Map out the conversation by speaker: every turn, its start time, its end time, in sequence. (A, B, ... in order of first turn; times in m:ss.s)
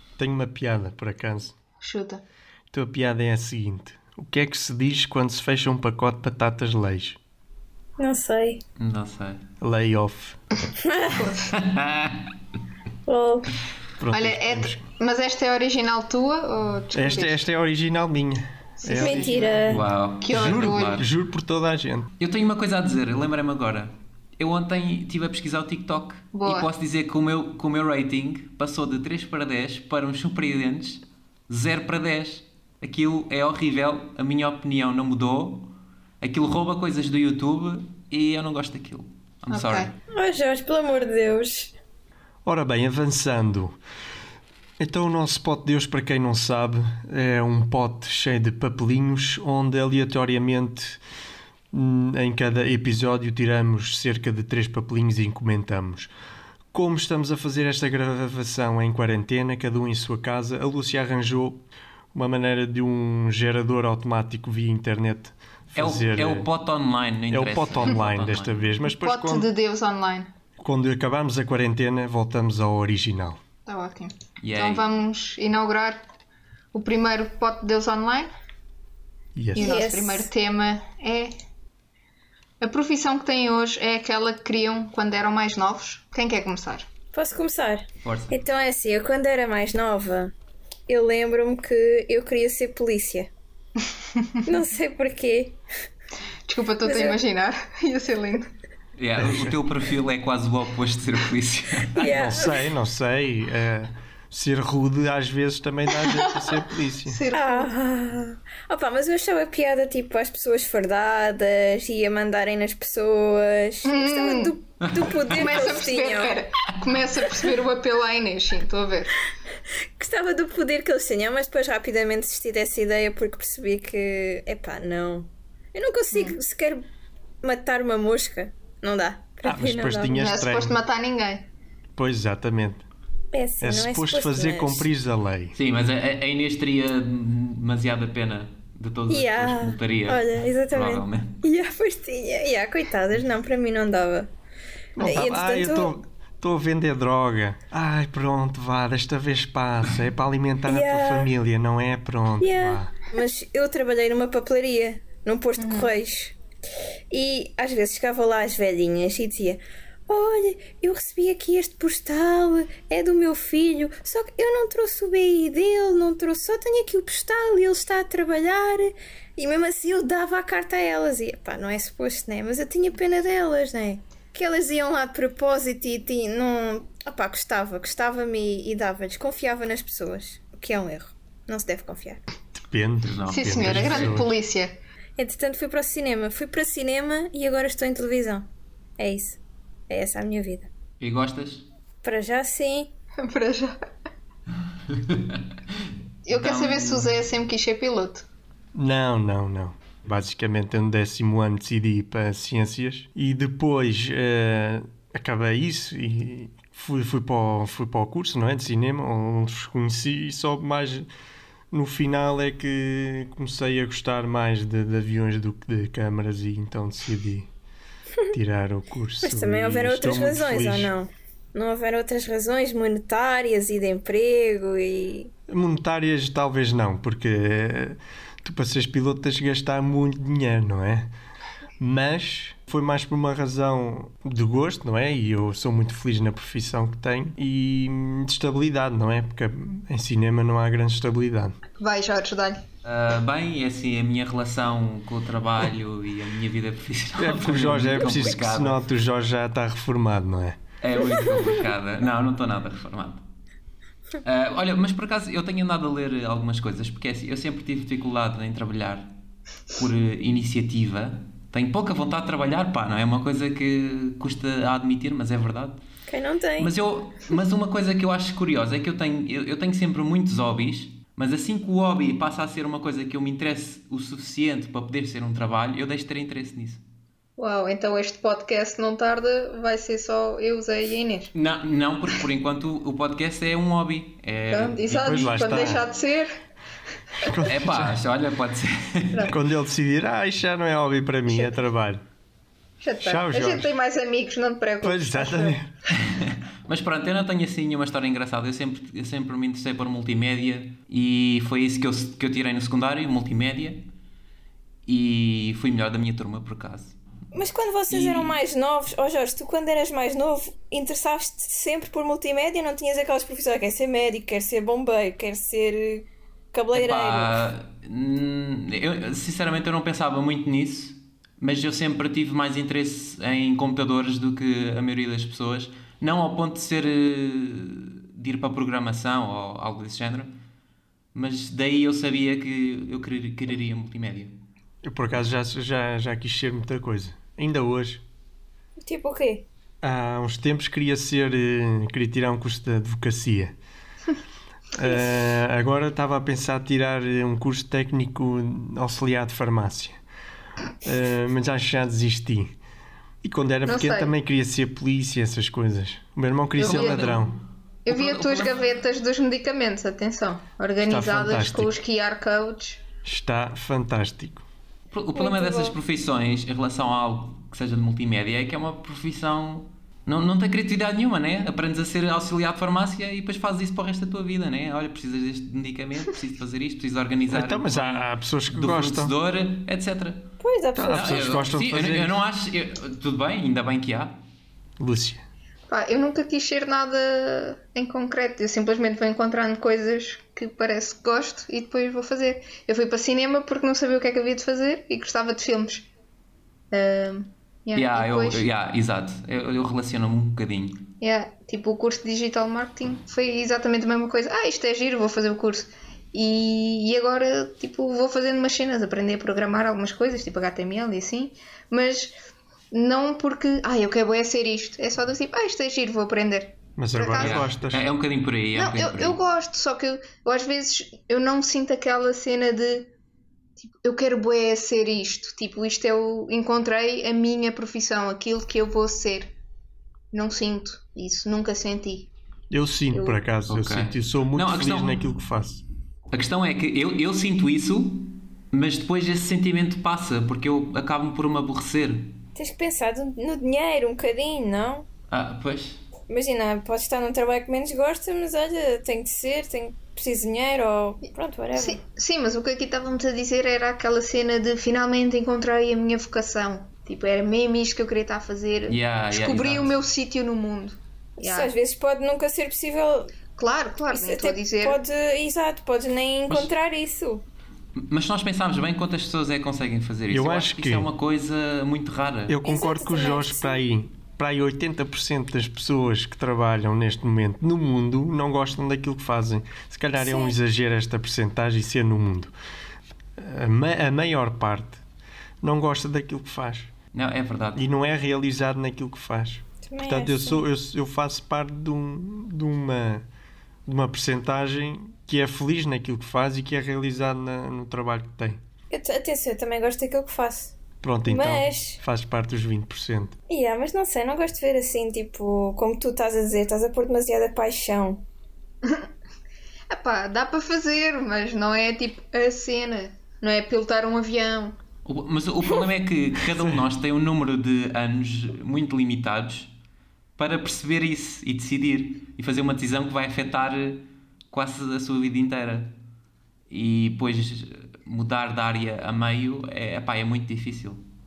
0:00.2-0:01.5 A
0:01.8-0:02.2 B
0:02.7-0:07.2 A
0:08.0-0:08.6 C
0:08.8-0:09.4 D
0:09.6-0:10.4 A
0:10.8-0:11.2 C
0:11.1-0:11.5 B
0:11.5-0:12.3 D
0:13.1-0:13.5 C
0:14.0-0:14.8 A
0:14.1-0:17.4 B
0:16.9-0:22.1 A
0:18.8-0:21.0 B
0:19.0-0:19.8 C
0:19.7-0:21.1 D
0:22.2-0:39.9 D
0:26.3-0:26.7 B
0:39.5-0:39.9 B
0:40.1-0:41.7 C
0:42.4-0:43.8 A
0:44.8-0:51.0 A
0:51.7-0:56.1 A
0:56.7-1:01.6 A
1:02.1-1:06.5 A
1:05.8-1:08.6 D
1:07.3-1:09.5 A
1:08.9-1:10.3 B
1:10.6-1:13.4 A
1:13.6-1:16.0 B
1:14.4-1:14.8 D
1:16.7-1:18.3 B
1:19.3-1:19.7 A
1:19.6-1:20.3 C
1:19.6-1:21.3 B
1:22.6-1:26.9 B
1:27.1-1:30.3 C
1:28.0-1:28.4 D
1:30.9-1:33.3 C
1:34.4-1:35.6 C
1:36.5-1:38.5 B
1:36.8-1:37.2 C
1:39.0-1:42.4 D
1:39.2-1:39.6 A
1:42.0-1:42.6 C
1:42.0-1:47.2 A
1:46.0-1:47.7 B
1:47.3-1:56.4 C
1:53.8-1:54.5 B
1:54.8-1:55.4 D
1:55.3-1:59.2 B
2:00.0-2:06.8 C
2:07.4-2:10.3 C
2:09.4-2:10.8 A
2:10.2-2:11.5 B
2:12.0-2:12.8 A
2:13.3-2:14.9 C
2:13.6-2:15.6 A
2:15.5-2:21.4 D
2:19.1-2:24.3 C
2:25.0-2:32.9 A
2:25.0-2:25.9 C
2:30.7-2:31.3 C
2:32.4-2:36.3 C
2:35.6-2:35.9 B
2:37.1-3:02.2 C
3:02.5-3:04.3 A
3:03.0-3:04.2 D
3:03.3-3:04.7 B
3:05.2-3:08.5 C
3:09.0-3:09.4 C
3:09.9-3:10.7 C
3:11.0-3:11.6 D
3:12.0-3:12.9 C
3:13.2-3:13.7 B
3:14.9-3:15.4 D
3:16.2-3:18.2 B
3:16.3-3:17.1 D
3:18.7-3:31.1 A
3:31.7-3:37.5 A
3:38.3-3:40.9 A
3:39.2-3:45.3 C
3:45.5-3:51.1 A
3:51.8-4:01.6 A
4:01.8-4:02.6 B
4:02.8-4:08.8 D
4:07.2-4:10.6 A
4:10.8-4:13.2 D
4:14.2-4:19.1 D
4:19.7-4:25.8 D
4:26.1-4:26.7 C
4:26.6-4:36.8 D
4:37.4-4:41.3 B
4:41.3-4:45.8 D
4:44.5-4:46.4 B
4:45.0-4:45.8 A
4:47.2-4:48.0 A
4:47.4-4:49.4 D
4:49.3-4:52.0 A
4:51.3-4:51.5 B
4:52.8-4:55.6 B
4:53.0-4:53.7 A
4:54.8-4:55.7 A
4:55.9-5:03.8 D
5:04.8-5:07.0 D
5:07.3-5:17.4 C
5:07.9-5:08.4 D
5:16.7-5:30.3 D
5:31.1-5:34.3 D
5:34.8-5:38.0 A
5:38.8-5:39.4 C
5:39.8-5:43.5 A
5:44.7-5:50.0 A
5:50.8-5:52.5 A
5:53.2-5:57.3 A
5:53.6-5:54.1 B
5:56.6-5:57.2 B
5:56.6-5:57.3 D
5:57.8-6:02.8 B
5:57.9-5:58.6 D
6:00.8-6:01.7 A
6:03.0-6:04.4 A
6:04.9-6:20.3 D
6:05.1-6:05.8 C
6:17.3-6:19.1 A
6:20.4-6:21.3 C
6:20.7-6:22.1 A
6:20.9-6:24.2 D
6:24.8-6:25.2 A
6:25.7-6:35.9 B
6:36.7-6:38.4 B
6:37.7-6:40.9 D
6:41.0-6:52.1 B
6:52.7-6:57.5 B
6:56.8-6:57.9 A
6:57.2-6:59.2 D
6:58.5-7:02.9 B
7:03.6-7:09.3 B
7:10.1-7:12.1 B
7:12.5-7:15.6 A
7:12.9-7:13.2 B
7:13.5-7:15.0 D
7:16.1-7:22.1 D
7:22.4-7:24.9 C
7:25.1-7:25.8 D
7:26.1-7:31.8 C
7:31.5-7:41.5 B
7:38.7-7:39.8 D
7:41.2-7:43.1 C
7:43.3-7:44.8 B
7:43.9-7:47.2 C
7:47.8-7:52.4 D
7:50.1-7:50.9 A
7:52.3-8:02.3 A
7:52.4-7:53.6 C
8:00.0-8:00.4 C
8:03.2-8:04.8 A
8:05.4-8:06.7 A
8:06.9-8:07.7 D
8:07.6-8:13.0 A
8:09.6-8:10.4 C
8:13.6-8:18.4 A
8:18.7-8:20.5 C
8:20.8-8:23.1 A
8:21.0-8:21.8 C
8:23.3-8:28.0 C
8:29.7-8:34.6 B
8:34.8-8:39.5 D
8:40.2-8:45.7 D
8:46.5-8:50.8 D